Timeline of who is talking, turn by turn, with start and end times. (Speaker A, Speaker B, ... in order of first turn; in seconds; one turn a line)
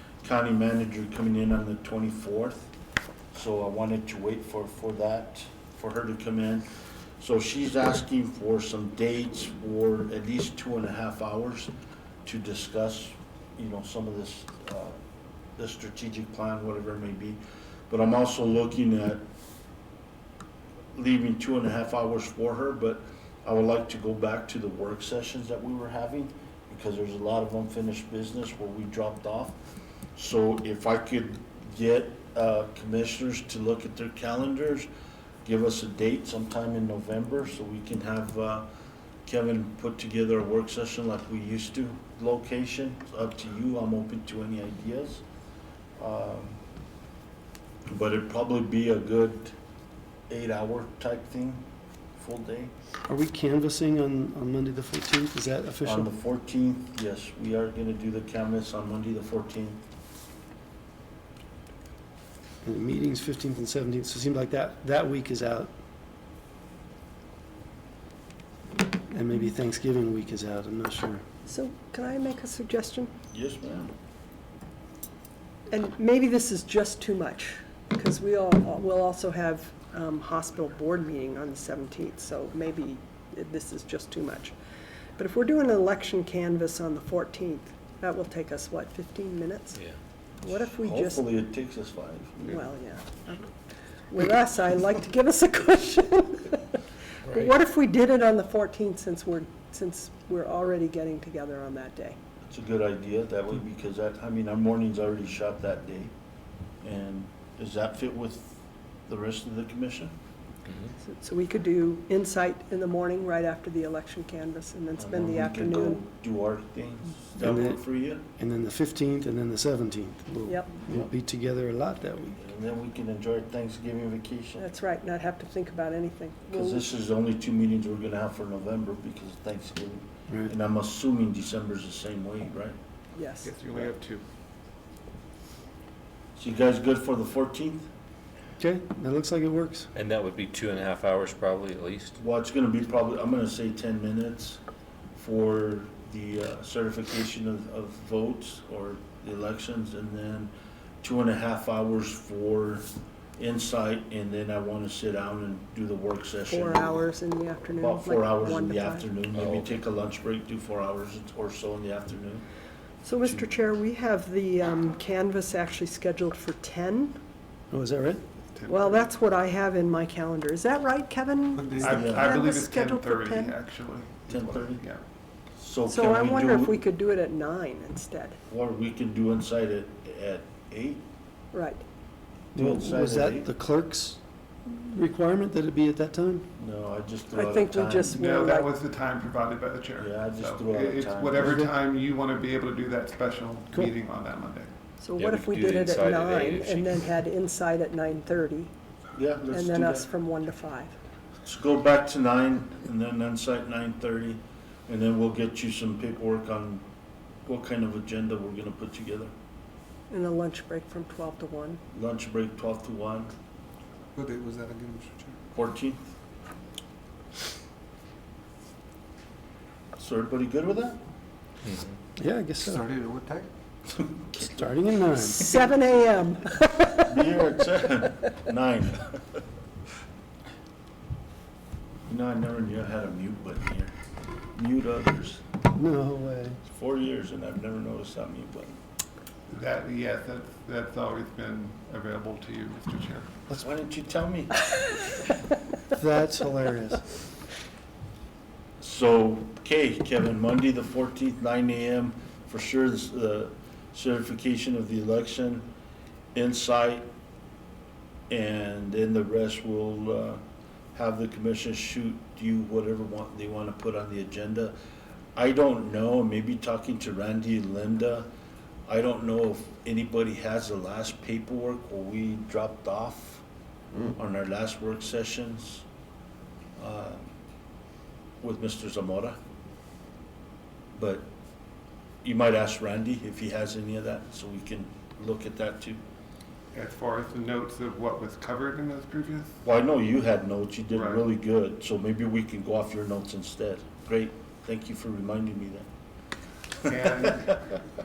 Speaker A: 0.2-2.7
Speaker A: 3.3-6.7
Speaker A: 7.2-11.7
Speaker A: 12.2-15.0
Speaker A: 15.6-19.2
Speaker A: 20.9-29.6
Speaker A: 30.1-34.9
Speaker A: 35.4-38.7
Speaker A: 39.2-45.2
Speaker A: 46.0-46.6
Speaker A: 47.9-49.5
Speaker A: 50.3-51.6
Speaker A: 52.1-52.7
Speaker B: 53.1-56.1
Speaker A: 55.8-59.8
Speaker B: 62.6-65.7
Speaker B: 69.1-71.2
Speaker C: 71.5-73.1
Speaker A: 73.3-73.9
Speaker C: 75.7-84.5
Speaker C: 85.2-89.9
Speaker A: 90.4-92.6
Speaker C: 90.4-91.2
Speaker C: 92.4-93.5
Speaker C: 94.1-102.2
Speaker A: 102.4-106.1
Speaker A: 106.8-110.1
Speaker C: 111.2-116.0
Speaker A: 115.0-118.2
Speaker B: 117.4-117.8
Speaker B: 118.4-122.4
Speaker C: 120.5-120.7
Speaker A: 122.4-124.7
Speaker C: 124.6-126.9
Speaker A: 126.5-132.8
Speaker C: 133.1-133.5
Speaker D: 133.4-134.2
Speaker A: 136.4-137.9
Speaker B: 138.6-139.9
Speaker E: 139.9-142.2
Speaker A: 142.2-144.6
Speaker A: 145.1-152.9
Speaker A: 153.4-157.1
Speaker C: 156.5-159.1
Speaker A: 157.8-162.4
Speaker C: 163.0-167.2
Speaker B: 167.7-168.2
Speaker D: 168.5-169.1
Speaker C: 168.7-173.6
Speaker D: 171.6-175.0
Speaker A: 171.8-172.3
Speaker A: 174.3-174.8
Speaker A: 175.6-176.8
Speaker C: 175.9-178.4
Speaker A: 178.5-181.0
Speaker C: 181.5-181.8
Speaker A: 182.5-183.5
Speaker B: 182.5-186.5
Speaker A: 186.6-188.3
Speaker C: 187.3-188.7
Speaker D: 188.1-194.7
Speaker A: 190.0-191.5
Speaker C: 195.0-198.7
Speaker E: 195.2-197.1
Speaker A: 199.1-200.1
Speaker C: 199.5-201.0
Speaker A: 201.4-206.8
Speaker A: 207.4-209.3
Speaker C: 210.1-211.8
Speaker A: 211.9-213.3
Speaker D: 214.2-215.3
Speaker E: 214.4-215.1
Speaker A: 215.5-216.0
Speaker A: 220.0-221.0
Speaker E: 221.7-221.9
Speaker B: 222.2-222.9
Speaker E: 222.7-223.5
Speaker A: 223.9-224.6
Speaker B: 224.4-225.6
Speaker C: 225.2-227.2
Speaker A: 227.0-229.4
Speaker A: 232.1-233.9
Speaker A: 234.5-235.4
Speaker B: 235.7-236.6
Speaker A: 236.6-238.8
Speaker D: 239.5-243.3
Speaker A: 243.5-244.7
Speaker B: 245.9-247.0
Speaker A: 248.8-255.7
Speaker A: 256.3-257.1
Speaker A: 258.3-260.4
Speaker A: 260.9-264.7
Speaker A: 265.4-268.3
Speaker A: 268.9-273.4
Speaker A: 274.1-275.8
Speaker A: 276.8-277.2
Speaker A: 278.4-279.4
Speaker A: 280.9-281.3
Speaker A: 282.2-286.0
Speaker D: 286.7-289.6
Speaker A: 289.6-295.9
Speaker D: 290.9-291.2
Speaker D: 296.8-297.7
Speaker A: 296.8-297.4